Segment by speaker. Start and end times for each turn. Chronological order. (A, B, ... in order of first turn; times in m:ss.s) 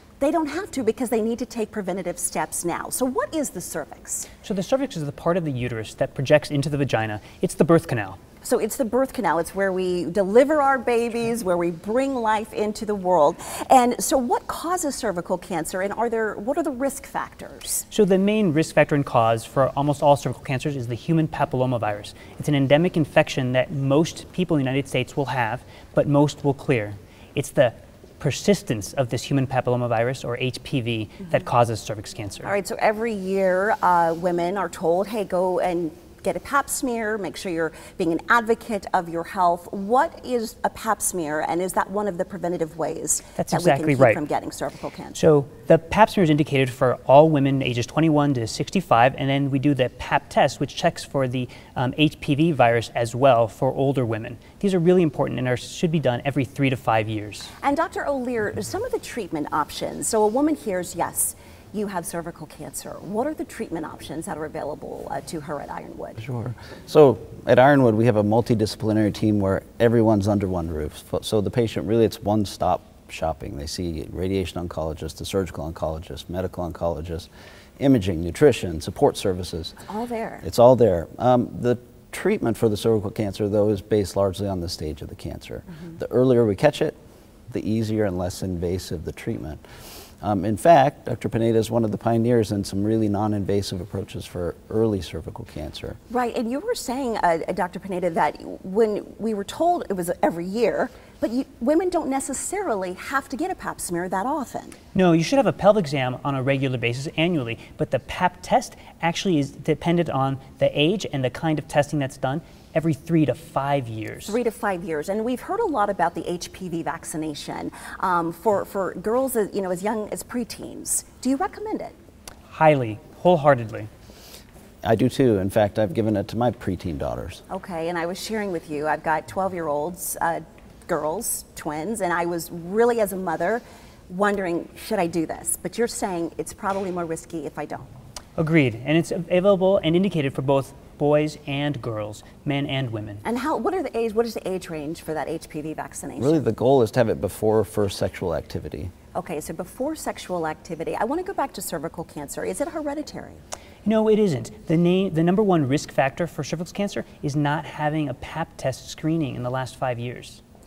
0:00.2-0:04.3 A
0:04.4-0:08.2 B
0:08.4-0:17.8 A
0:17.9-0:32.5 B
0:32.4-0:45.2 A
0:43.4-0:44.2 B
0:45.1-0:57.5 B
0:57.6-1:06.2 A
1:06.2-1:17.3 C
1:17.8-1:19.8 C
1:19.8-1:20.4 A
1:20.4-1:27.0 C
1:27.5-1:29.6 C
1:30.2-1:36.0 C
1:36.1-1:44.8 A
1:44.9-1:54.4 B
1:54.2-2:01.9 A
2:02.5-2:03.9 B
2:04.8-2:07.4 C
2:07.5-2:17.9 A
2:18.4-2:23.2 B
2:23.2-2:26.4 A
2:26.2-2:28.9 C
2:29.1-2:33.4 A
2:33.8-2:40.4 B